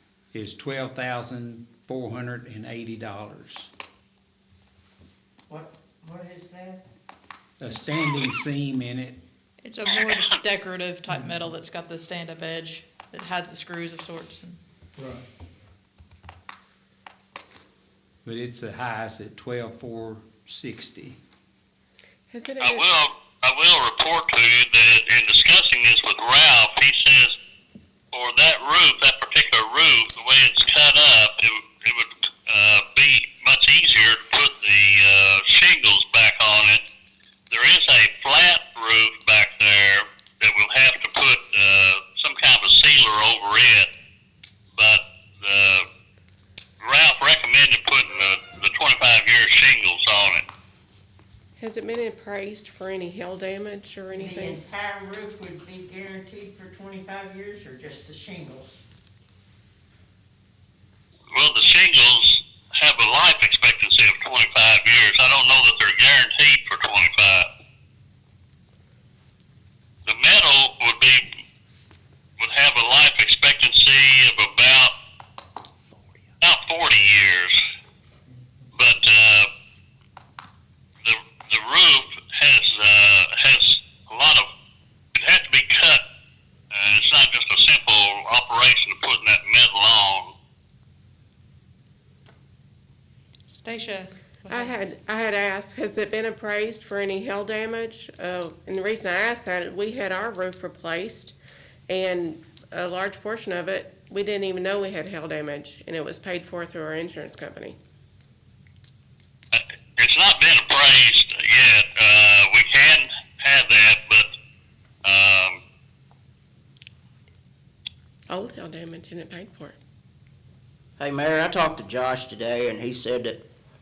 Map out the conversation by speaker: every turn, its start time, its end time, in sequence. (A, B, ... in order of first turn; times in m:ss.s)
0:00.3-0:03.7 A
0:05.5-0:06.8 B
0:07.6-0:09.2 A
0:09.6-0:14.6 C
0:09.9-0:10.4 D
0:15.0-0:15.2 E
0:18.2-0:21.2 A
0:22.3-0:22.9 E
0:22.6-0:27.4 D
0:28.1-0:36.8 D
0:37.5-0:43.9 D
0:44.8-0:45.9 D
0:46.8-0:50.4 D
0:51.6-0:54.6 E
0:54.1-0:58.8 B
1:01.3-1:07.5 D
1:10.1-1:11.2 D
1:12.4-1:14.9 D
1:16.4-1:17.6 D
1:18.7-1:19.5 D
1:21.0-1:24.5 D
1:25.2-1:26.0 D
1:26.7-1:30.3 D
1:33.5-1:34.8 C
1:34.5-1:41.4 E
1:41.9-1:47.8 E
1:49.5-1:54.3 D
1:55.0-1:55.6 D
1:58.3-1:59.8 E
2:01.0-2:03.5 F